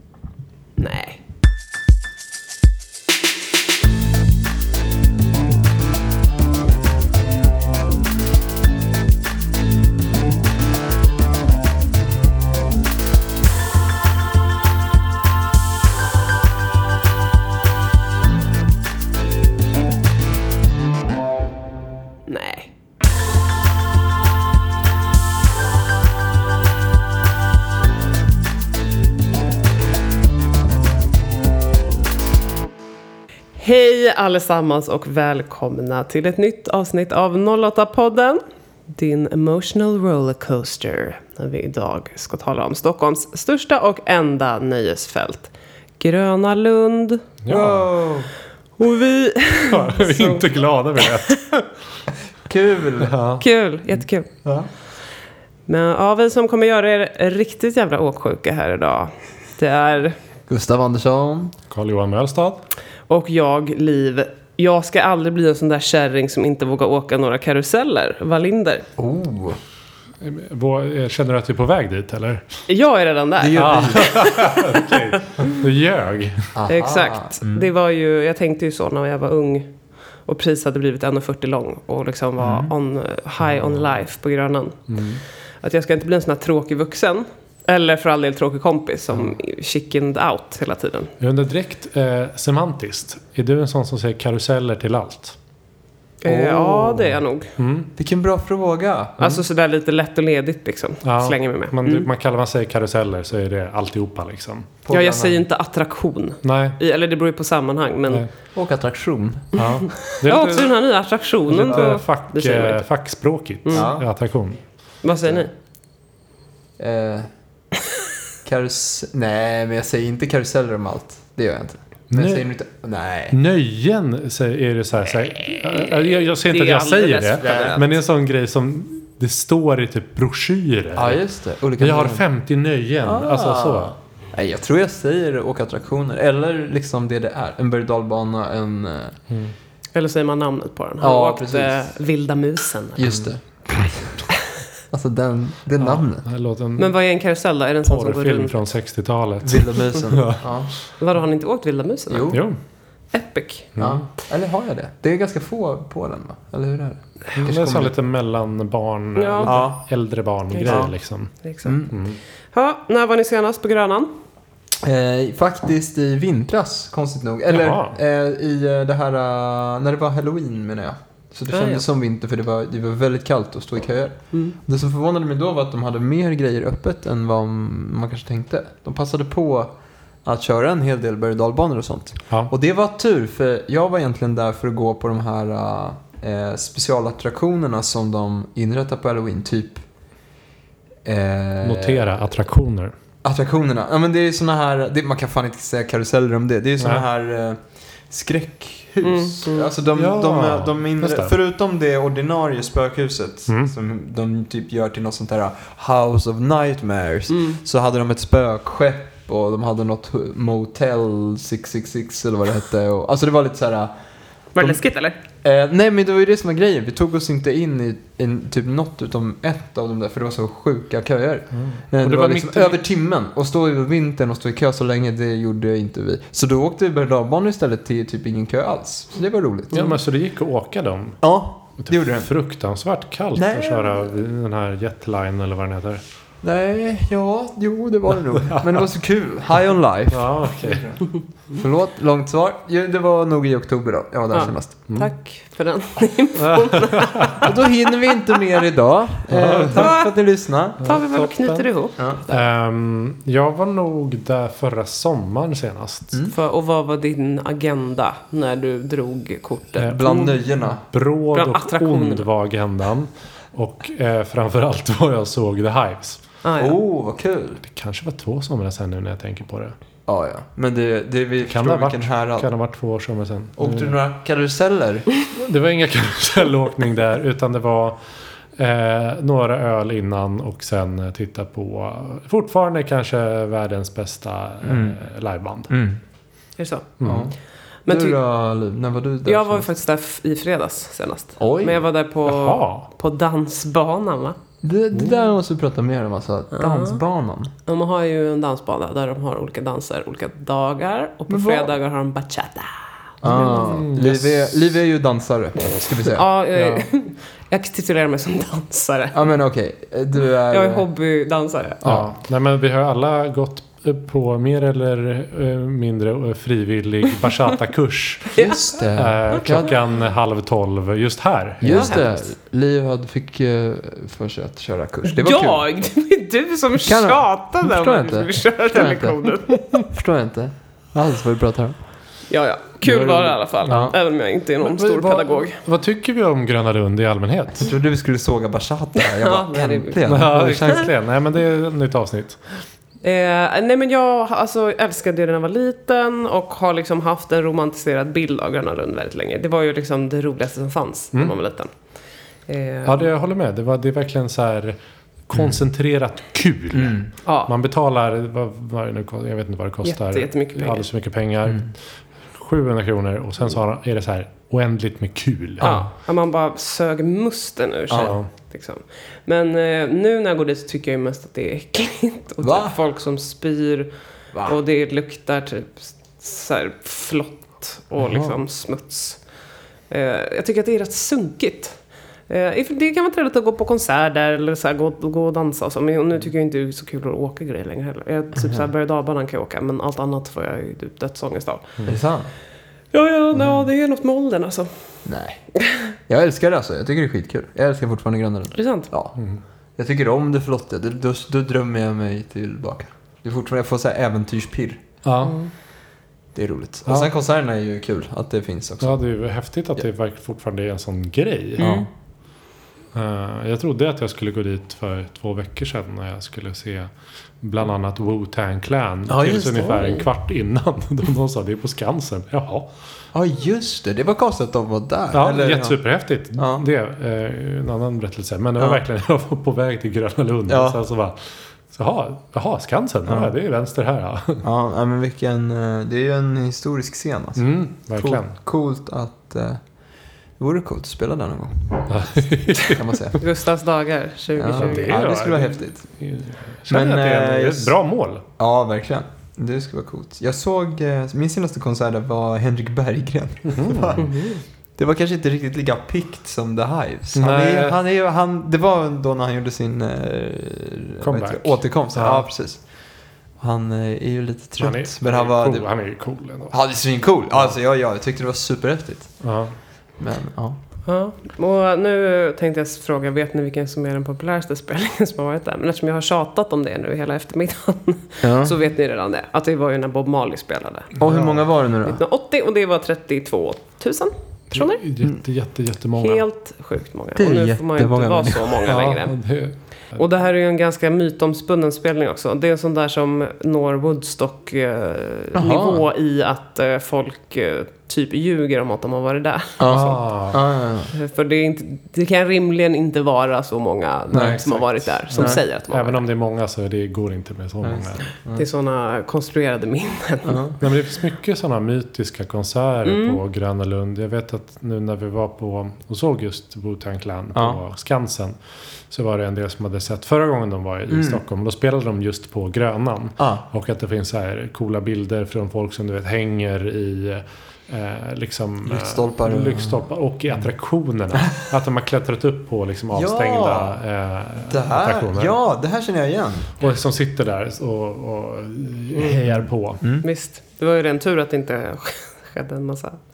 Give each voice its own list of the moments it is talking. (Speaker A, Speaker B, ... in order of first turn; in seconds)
Speaker A: 0.8-1.2, 22.3-22.7, 33.6-47.3, 48.8-51.6, 53.4-54.3, 55.7-60.2, 63.1-68.9, 72.7-74.8, 76.7-79.7, 80.3-84.9, 85.6-91.1, 96.2-97.5, 99.2-102.1, 104.9-108.2, 109.6-112.9, 113.7-113.9, 115.0-115.5, 126.1-128.0, 139.9-143.1, 146.8-148.6, 151.0-152.4, 153.1-153.7, 159.2-159.6, 160.6-160.8, 161.4-161.8, 162.5-164.1, 171.5-171.9, 199.0-199.7, 207.3-207.6, 214.6-215.2, 244.3-248.6, 249.7-250.1, 250.8-252.4, 256.3-260.4, 261.3-262.3, 266.4-266.8, 286.6-286.9, 287.9-288.2, 289.2-294.4, 296.5-297.0, 297.7-303.7, 306.1-309.3, 310.5-311.8, 321.6-322.2, 325.1-329.9, 332.3-335.6, 339.0-340.3, 343.0-351.7, 352.5-353.1, 357.3-357.5, 359.8-360.9, 365.6-373.9, 374.4-379.2, 379.9-381.8, 382.3-391.7, 392.9-394.7, 395.6-395.9, 398.6-398.9, 405.2-405.5, 411.6-411.9, 443.2-445.0, 454.0-454.4, 470.9-480.9, 481.8-484.8, 486.0-489.1, 490.0-500.0, 500.9-506.1, 508.4-510.4, 512.9-513.2, 540.0-543.0
Speaker B: 47.4-47.9, 49.6-51.4, 53.0-53.4, 61.7-62.6, 70.2-72.5, 73.6-76.5, 83.4-83.8, 84.9-85.2, 91.2-95.4, 97.6-97.9, 101.0-104.7, 106.4-106.8, 109.5-110.7, 111.5-114.6, 122.1-122.5, 123.3-131.2, 131.8-133.9, 145.8-146.9, 147.8-150.4, 152.3-152.6, 153.8-154.1, 157.4-161.3, 161.9-162.2, 167.5-168.0, 191.6-192.9, 196.8-197.1, 199.9-201.3, 203.5-203.7, 221.5-222.8, 229.7-231.2, 231.8-236.0, 238.4-238.9, 240.1-241.0, 246.4-247.5, 249.3-250.0, 250.8-251.7, 252.3-256.2, 259.8-266.2, 267.6-269.7, 271.5-274.0, 275.4-278.0, 278.6-285.7, 287.0-287.3, 292.3-292.9, 294.9-295.2, 303.2-304.7, 306.5-306.9, 311.8-318.4, 318.9-322.1, 334.6-337.7, 340.1-342.4, 352.9-361.8, 362.4-365.7, 367.9-368.3, 405.0-405.4, 406.9-407.1, 408.8-411.7, 412.9-422.7, 425.1-434.4, 437.4-438.4, 441.9-442.8, 444.5-448.2, 453.5-454.0, 457.1-457.8, 461.0-462.3, 464.6-466.6, 469.2-469.5, 481.0-481.4, 484.5-486.2, 488.6-490.0, 499.6-500.4, 504.1-508.1, 510.6-518.4, 518.9-535.4, 536.6-539.8
Speaker C: 47.5-48.3, 52.5-53.1, 60.5-61.5, 69.0-69.6, 73.4-74.4, 76.5-77.6, 82.4-82.7, 96.2-97.2, 98.0-99.4, 104.8-105.4, 108.5-109.5, 111.7-112.0, 113.7-114.1, 115.2-115.5, 116.8-117.3, 118.5-123.4, 127.4-127.8, 130.9-132.2, 133.0-139.2, 141.0-141.9, 143.0-144.3, 144.9-146.2, 149.4-150.7, 152.1-152.4, 153.8-157.9, 159.4-159.8, 160.7-160.9, 161.7-161.9, 164.8-179.7, 180.2-189.8, 191.1-192.1, 193.2-213.9, 215.4-229.9, 231.2-232.3, 233.4-234.2, 236.4-244.8, 247.4-250.8, 252.0-252.2, 259.9-260.9, 266.6-267.6, 270.1-272.5, 273.6-275.1, 284.6-285.0, 285.7-286.0, 287.0-287.4, 287.9-289.7, 291.4-291.9, 294.6-297.5, 301.3-301.7, 303.2-306.3, 309.1-310.9, 311.8-312.1, 318.4-319.7, 321.6-325.6, 326.8-331.8, 332.8-334.0, 337.6-340.9, 356.7-357.1, 365.6-365.9, 367.9-368.2, 372.4-372.8, 378.0-378.3, 388.4-388.7, 391.9-392.3, 393.4-393.6, 395.1-395.4, 396.1-399.2, 399.8-404.8, 406.4-409.0, 411.6-411.9, 419.1-420.0, 423.1-425.8, 426.4-426.6, 430.5-430.8, 434.4-439.6, 440.4-443.2, 444.4-445.8, 446.7-447.8, 448.4-454.2, 454.8-462.6, 463.4-465.7, 466.5-469.2, 470.0-470.6, 478.2-478.6, 481.0-482.0, 487.2-488.6, 495.4-495.8, 499.6-500.9, 504.1-504.4, 505.1-505.4, 507.6-508.5, 510.3-510.6, 517.3-517.6, 520.9-521.2, 523.2-523.5, 528.6-530.5, 532.9-533.8, 534.5-536.5, 539.3-540.1